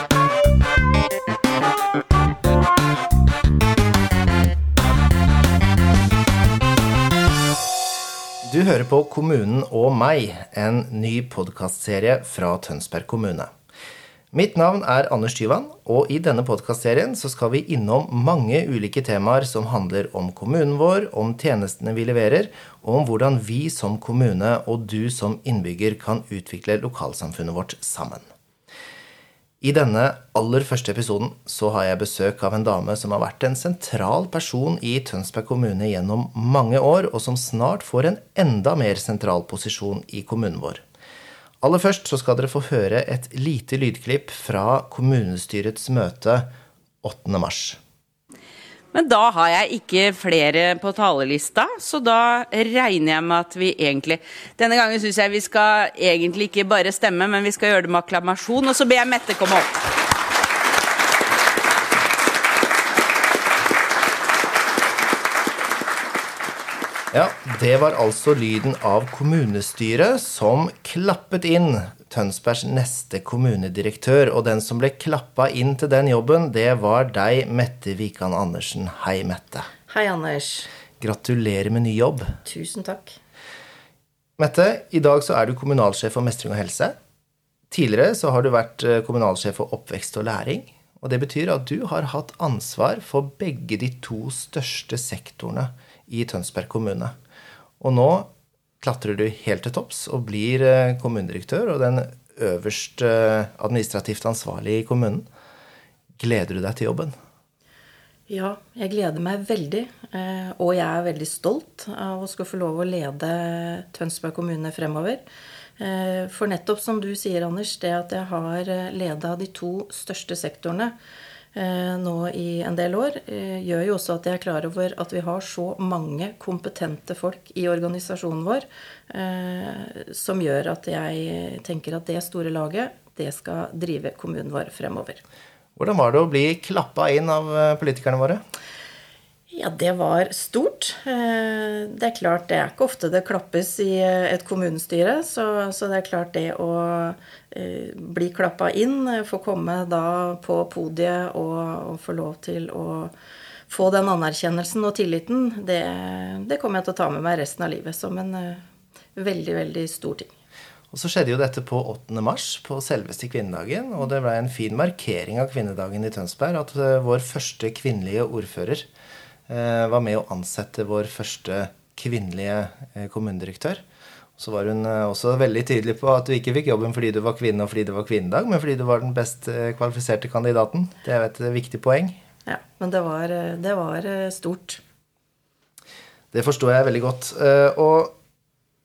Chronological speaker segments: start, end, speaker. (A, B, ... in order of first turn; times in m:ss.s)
0:08.4-0:13.5 A
0:14.3-0:28.3 A
0:29.6-0:40.8 A
0:41.6-0:46.5 A
0:47.0-0:47.8 A
0:48.9-0:59.8 B
1:07.1-1:19.7 A
1:19.9-1:20.7 C
1:21.0-1:22.4 A
1:22.4-1:23.2 C
1:24.4-1:27.0 A
1:27.7-1:37.1 A
1:37.8-1:45.2 A
1:46.2-1:47.1 A
1:48.3-1:55.2 C
1:55.8-2:00.9 C
2:01.5-2:15.2 C
2:15.8-2:18.4 A
2:19.5-2:33.1 C
2:33.7-2:40.3 C
2:40.9-2:48.9 A
2:49.5-2:53.8 A
2:54.4-3:02.2 A
3:02.4-3:04.8 C
3:06.3-3:08.2 A